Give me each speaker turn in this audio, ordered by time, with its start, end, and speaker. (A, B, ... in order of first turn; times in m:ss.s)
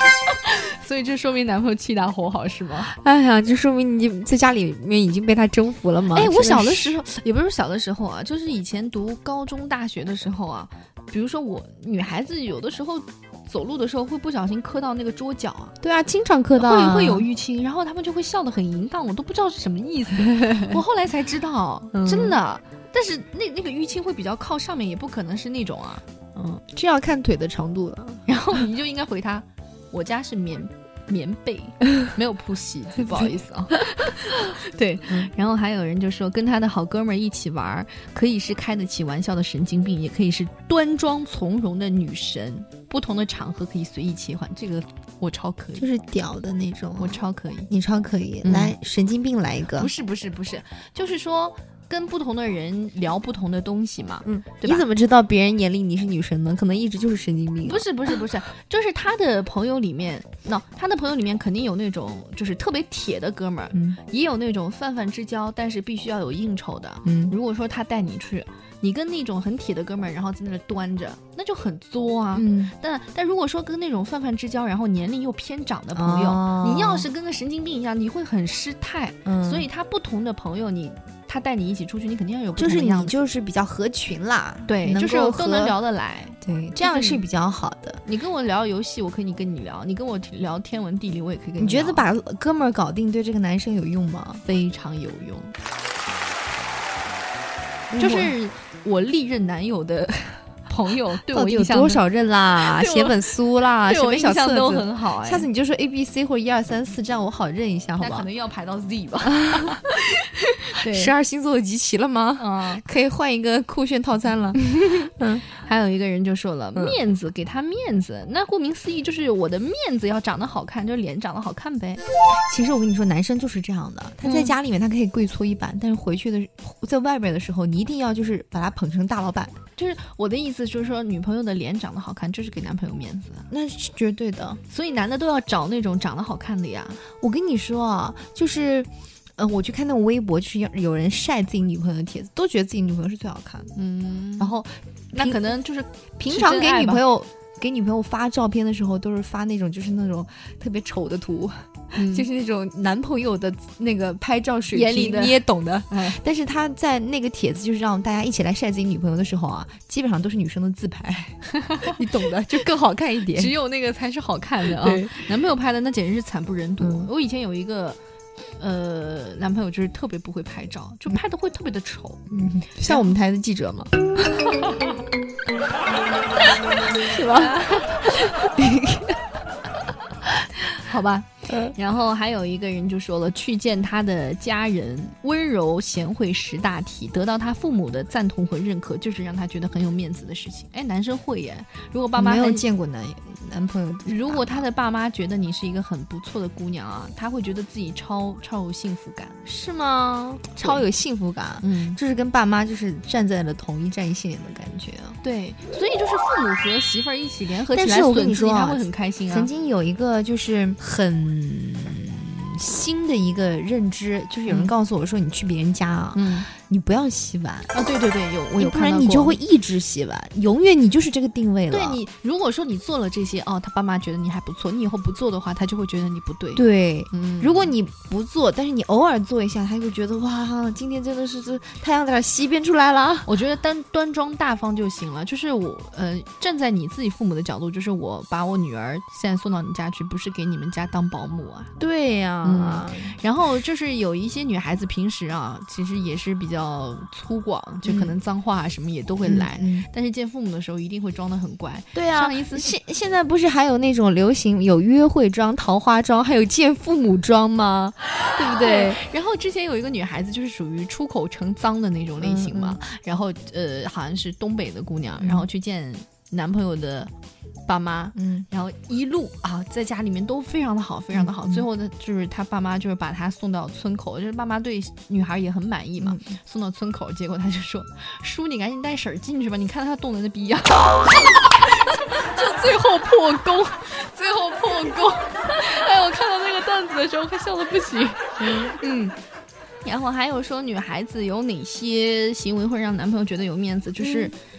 0:00.3-0:02.9 A
0:02.9-0:06.9 B
0:06.1-0:15.8 A
0:15.8-0:17.3 B
0:16.6-0:26.0 A
0:20.3-0:20.8 B
0:21.9-0:22.4 B
0:26.4-0:28.2 B
0:28.3-0:45.9 A
0:45.8-0:49.9 B
0:47.0-0:47.7 A
0:48.4-0:48.7 A
0:49.8-0:54.9 A
0:54.2-0:57.9 B
0:57.6-1:23.2 A
1:03.7-1:04.0 B
1:07.0-1:07.4 B
1:12.3-1:12.7 B
1:15.9-1:17.1 B
1:19.3-1:19.7 B
1:22.6-1:25.8 B
1:24.7-1:27.2 A
1:26.4-1:28.0 B
1:28.1-1:32.1 A
1:31.6-1:34.4 B
1:34.4-1:35.6 A
1:37.9-1:38.3 B
1:38.0-1:42.0 A
1:41.3-1:48.3 B
1:42.6-1:43.2 A
1:43.8-1:45.5 A
1:48.0-1:49.9 A
1:49.4-1:49.8 B
1:50.6-1:51.1 A
1:50.8-1:55.5 B
1:52.4-1:52.8 A
1:55.5-2:02.0 A
2:02.5-2:09.6 B
2:04.2-2:04.6 A
2:09.8-2:13.5 A
2:13.5-2:14.6 B
2:14.7-2:17.0 A
2:17.2-2:23.8 B
2:23.8-2:24.6 A
2:24.4-2:25.5 B
2:25.1-2:27.0 A
2:26.2-2:43.6 B
2:32.0-2:32.3 A
2:34.7-2:36.2 A
2:41.6-2:41.9 A
2:43.3-2:48.0 A
2:44.6-2:45.2 B
2:46.8-2:47.1 B
2:48.6-2:52.2 A
2:52.3-2:54.0 B
2:52.8-2:53.1 A
2:57.0-2:59.2 B
2:57.2-2:58.4 A
3:00.3-3:12.6 A
3:01.5-3:01.7 B
3:12.2-3:14.7 B
3:14.1-3:19.4 A
3:19.5-3:25.2 B
3:20.6-3:20.8 A
3:21.6-3:22.0 A
3:25.2-3:29.5 A
3:27.7-3:37.7 B
3:34.5-3:34.7 A
3:36.2-3:36.5 A
3:37.7-3:39.4 A
3:38.6-3:42.0 B
3:41.7-3:47.7 A
3:46.6-3:53.3 B
3:53.2-4:01.7 A
4:01.8-4:03.2 B
4:02.4-4:12.7 A
4:07.8-4:08.2 B
4:09.2-4:09.9 B
4:11.9-4:19.0 B
4:18.4-4:27.1 A
4:22.2-4:22.8 B
4:25.2-4:25.5 B
4:27.7-4:49.1 A
4:28.2-4:28.5 B
4:31.1-4:31.7 B
4:36.0-4:36.4 B
4:48.4-4:48.8 B
4:49.8-4:54.4 A
4:54.0-4:54.3 B